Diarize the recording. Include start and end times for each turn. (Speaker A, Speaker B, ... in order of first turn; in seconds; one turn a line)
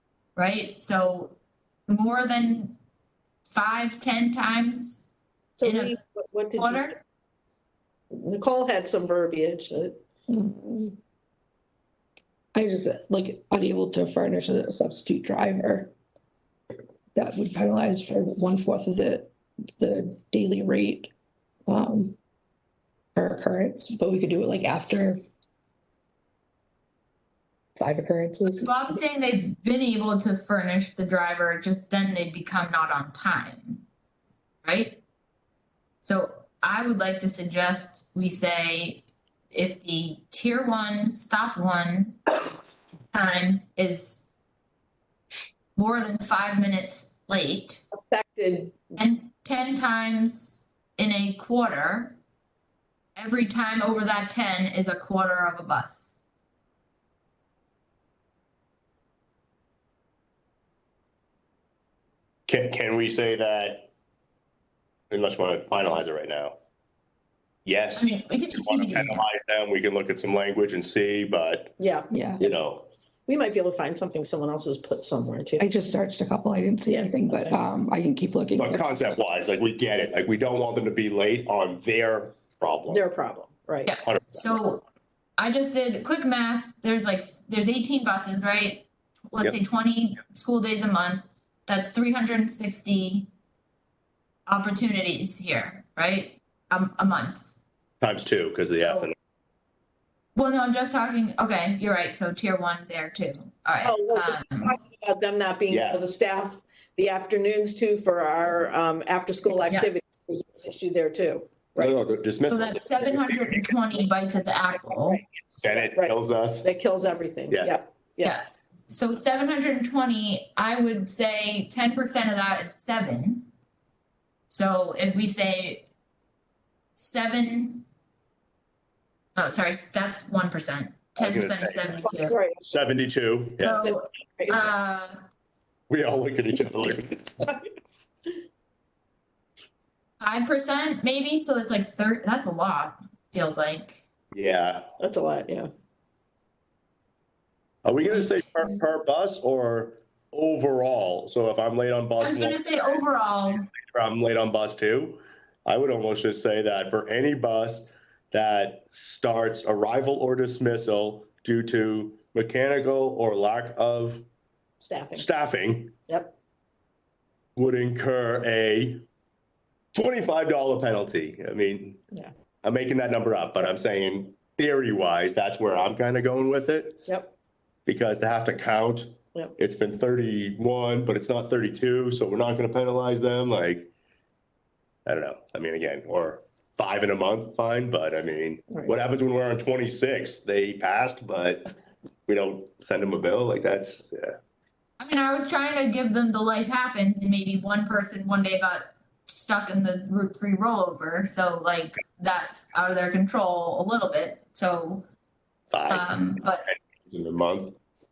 Speaker A: 0.3-2.8
Speaker A: 3.4-5.1
Speaker B: 5.6-7.0
Speaker A: 5.6-6.0
Speaker A: 6.6-7.0
Speaker B: 8.1-10.0
Speaker C: 10.3-11.0
Speaker C: 12.5-15.9
Speaker C: 17.1-21.1
Speaker C: 21.7-22.2
Speaker C: 23.1-25.2
Speaker C: 27.8-28.7
Speaker A: 28.6-33.8
Speaker A: 34.6-35.0
Speaker A: 36.0-42.2
Speaker A: 43.1-44.3
Speaker A: 45.8-47.9
Speaker B: 48.0-49.0
Speaker A: 49.0-52.2
Speaker A: 53.2-56.2
Speaker D: 62.5-63.9
Speaker D: 65.1-66.6
Speaker D: 67.7-71.8
Speaker A: 68.0-69.2
Speaker B: 71.8-72.5
Speaker C: 72.1-72.4
Speaker D: 72.4-72.9
Speaker B: 73.3-75.8
Speaker C: 75.6-79.0
Speaker B: 76.9-77.6
Speaker D: 78.6-83.0
Speaker B: 82.9-84.0
Speaker A: 83.9-84.8
Speaker D: 84.0-84.6
Speaker A: 85.4-93.3
Speaker A: 94.5-97.6
Speaker D: 98.0-99.1
Speaker A: 98.7-99.1
Speaker A: 100.3-104.8
Speaker B: 103.8-112.0
Speaker D: 105.7-106.0
Speaker D: 111.8-113.6
Speaker A: 112.5-115.2
Speaker B: 115.5-118.4
Speaker D: 115.6-116.7
Speaker D: 117.5-117.8
Speaker A: 118.2-123.5
Speaker A: 124.5-125.8
Speaker A: 127.0-127.9
Speaker A: 129.4-132.4
Speaker D: 131.2-132.0
Speaker B: 132.2-132.8
Speaker D: 132.7-133.9
Speaker A: 133.6-135.2
Speaker B: 133.8-134.7
Speaker D: 135.9-137.4
Speaker A: 140.2-144.0
Speaker D: 144.3-144.9
Speaker B: 145.0-145.7
Speaker D: 147.8-153.0
Speaker A: 148.2-148.6
Speaker A: 152.2-153.7
Speaker D: 153.8-164.3
Speaker B: 164.8-165.3
Speaker D: 165.2-166.0
Speaker B: 166.1-166.3
Speaker D: 167.6-169.1
Speaker D: 169.9-172.0
Speaker D: 172.6-177.1
Speaker B: 177.1-177.3
Speaker D: 177.9-183.9
Speaker D: 185.1-191.7
Speaker D: 192.3-194.4
Speaker A: 195.0-205.1
Speaker D: 205.7-207.8
Speaker A: 205.9-206.7